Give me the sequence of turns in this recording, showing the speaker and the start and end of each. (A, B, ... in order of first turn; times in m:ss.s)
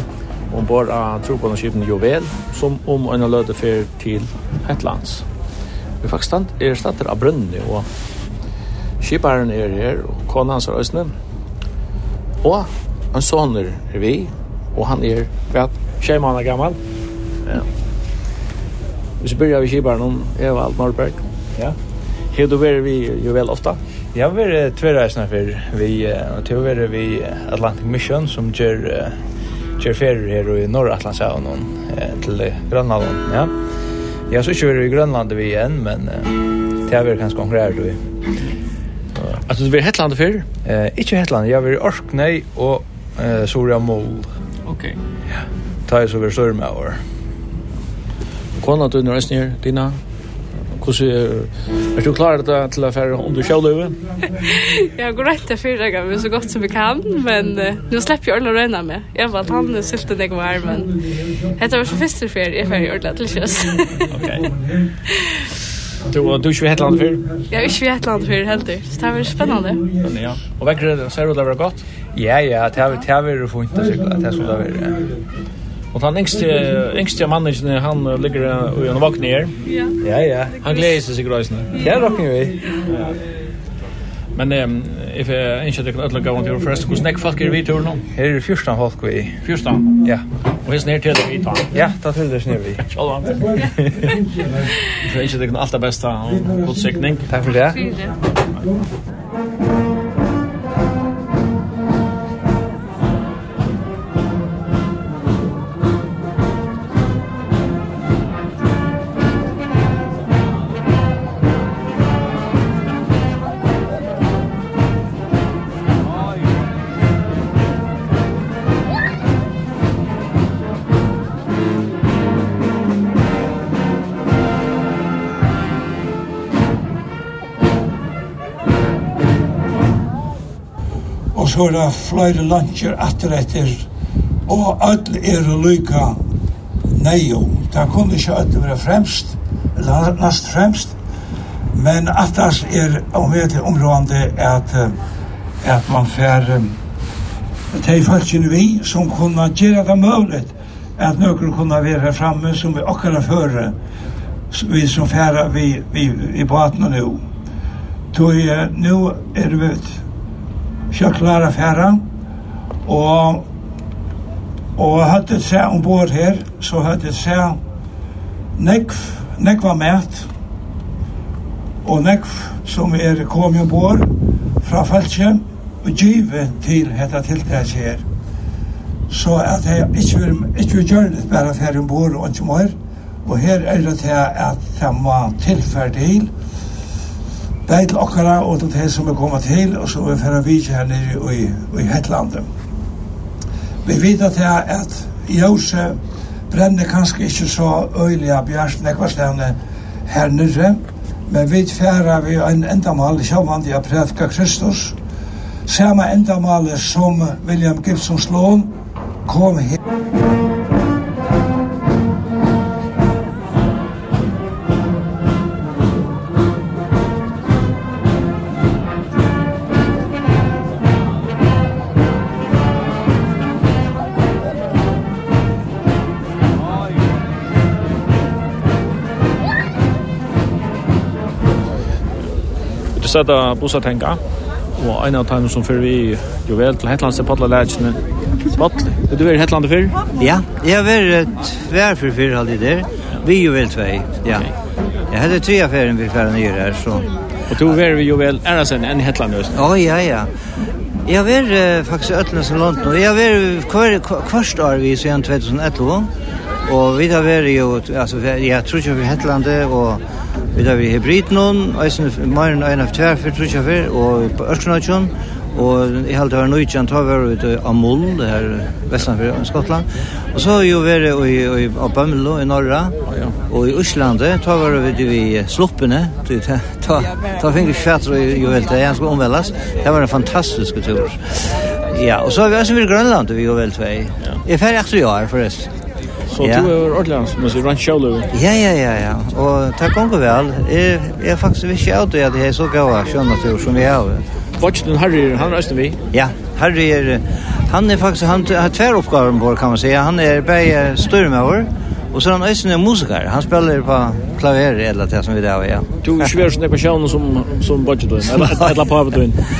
0:00.5-0:05.2 A
0:06.0-0:07.9 A
0:09.0-0:11.1 A
0:12.4-0:16.8 A
0:19.2-0:21.2 A
0:22.3-0:23.8 A
0:24.1-0:29.2 B
0:29.8-0:33.5 B
0:34.3-0:38.0 B
0:39.3-0:40.4 A
0:40.6-0:44.3 B
0:44.6-0:45.0 A
0:45.9-0:47.0 B
0:48.6-0:50.0 A
0:50.8-0:54.0 A
0:54.5-1:01.0 C
1:01.0-1:01.9 D
1:01.5-1:04.1 C
1:03.3-1:04.9 D
1:04.1-1:04.5 A
1:05.1-1:05.3 C
1:06.1-1:07.2 A
1:07.4-1:08.3 D
1:07.5-1:09.8 C
1:09.0-1:10.1 D
1:10.0-1:11.8 A
1:12.1-1:15.0 B
1:15.9-1:19.5 A
1:19.6-1:19.9 C
1:20.0-1:20.6 B
1:20.6-1:21.8 A
1:21.7-1:22.6 B
1:24.3-1:28.0 A
1:28.1-1:29.4 B
1:29.4-1:29.9 A
1:30.6-1:31.7 A
1:31.7-1:32.8 B
1:32.9-1:33.7 A
1:34.0-1:34.6 D
1:34.9-1:37.3 A
1:37.3-1:38.0 B
2:11.3-2:13.8 D
2:14.5-2:16.2 D
2:16.9-2:21.0 D
2:21.7-2:24.9 D
2:25.6-2:26.7 D
2:27.7-2:33.7 D
2:34.5-2:37.2 D
2:38.1-2:40.0 D
2:40.9-2:42.0 D
2:42.8-2:43.4 D
2:44.8-2:47.6 D
2:48.6-2:50.3 D
2:51.8-2:54.1 D
2:54.6-2:58.0 D
2:59.1-3:06.3 D
3:07.7-3:12.4 D
3:13.8-3:16.0 D
3:16.5-3:25.0 D
3:25.7-3:28.7 D
3:29.2-3:29.8 D
3:52.9-3:54.2 A
3:54.8-4:00.0 A
4:00.2-4:04.5 E
4:05.1-4:07.1 E
4:07.5-4:09.6 A
4:09.5-4:10.3 E
4:11.0-4:16.1 E
4:16.6-4:20.0 E
4:20.5-4:45.7 E
4:33.0-4:33.3 A
4:46.3-4:48.3 A
4:46.4-4:46.7 E
4:48.3-4:54.2 E
4:54.6-4:56.0 A
4:56.1-5:05.9 E
5:06.0-5:09.4 A
5:08.3-5:08.7 E